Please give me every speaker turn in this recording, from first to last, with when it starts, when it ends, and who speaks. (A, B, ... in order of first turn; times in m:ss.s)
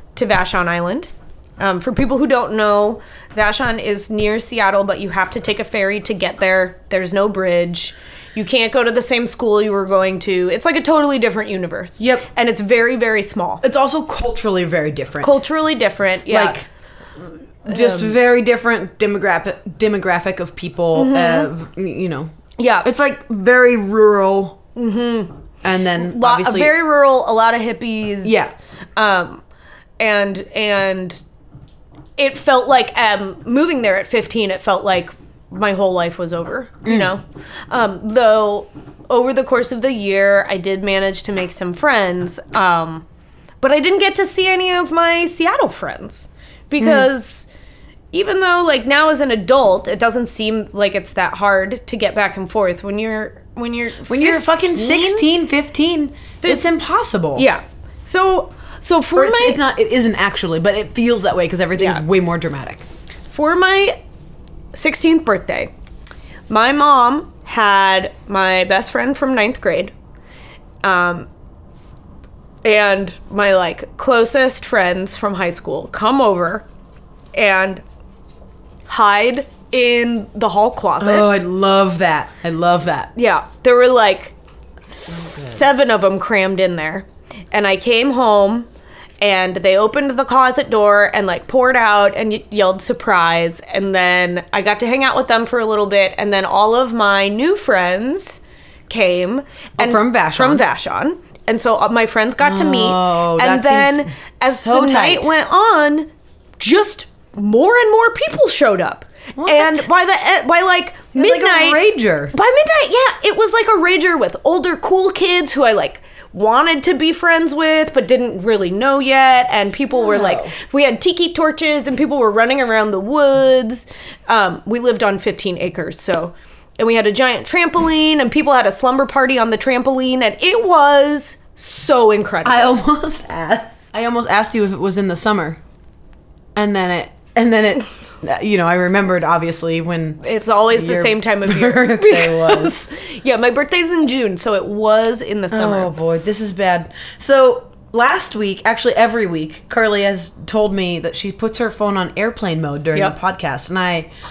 0:00.1-0:13.6 A
0:12.0-0:12.2 B
0:13.6-0:15.4 B
0:15.2-0:16.6 A
0:16.3-0:16.6 B
0:17.6-0:22.3 B
0:17.7-0:18.2 A
0:20.9-0:21.5 A
0:22.6-0:22.9 A
0:22.8-0:24.6 B
0:24.8-0:25.3 A
0:25.6-0:26.8 B
0:26.0-0:29.4 A
0:28.2-0:28.5 B
0:30.0-0:31.2 A
0:32.2-0:43.0 A
0:36.8-0:37.1 B
0:43.6-0:47.5 A
0:46.8-0:47.1 B
0:48.1-0:55.3 A
0:54.1-0:57.5 B
0:56.4-0:56.7 A
0:57.3-0:59.6 A
0:59.1-1:02.8 B
1:01.8-1:02.0 A
1:03.3-1:04.0 A
1:04.7-1:05.7 A
1:06.5-1:09.9 A
1:10.8-1:11.3 A
1:12.6-1:16.6 A
1:17.3-1:17.8 A
1:18.9-1:21.3 A
1:21.0-1:23.1 B
1:23.2-1:24.3 A
1:25.0-1:28.7 A
1:25.0-1:25.6 B
1:29.2-1:46.1 A
1:39.8-1:40.6 B
1:42.4-1:45.3 B
1:46.6-1:51.8 A
1:49.4-1:49.9 B
1:51.1-1:52.3 B
1:52.3-2:12.8 A
1:59.9-2:00.5 B
2:12.4-2:15.6 B
2:16.6-2:22.8 B
2:20.2-2:26.0 A
2:25.5-2:34.1 B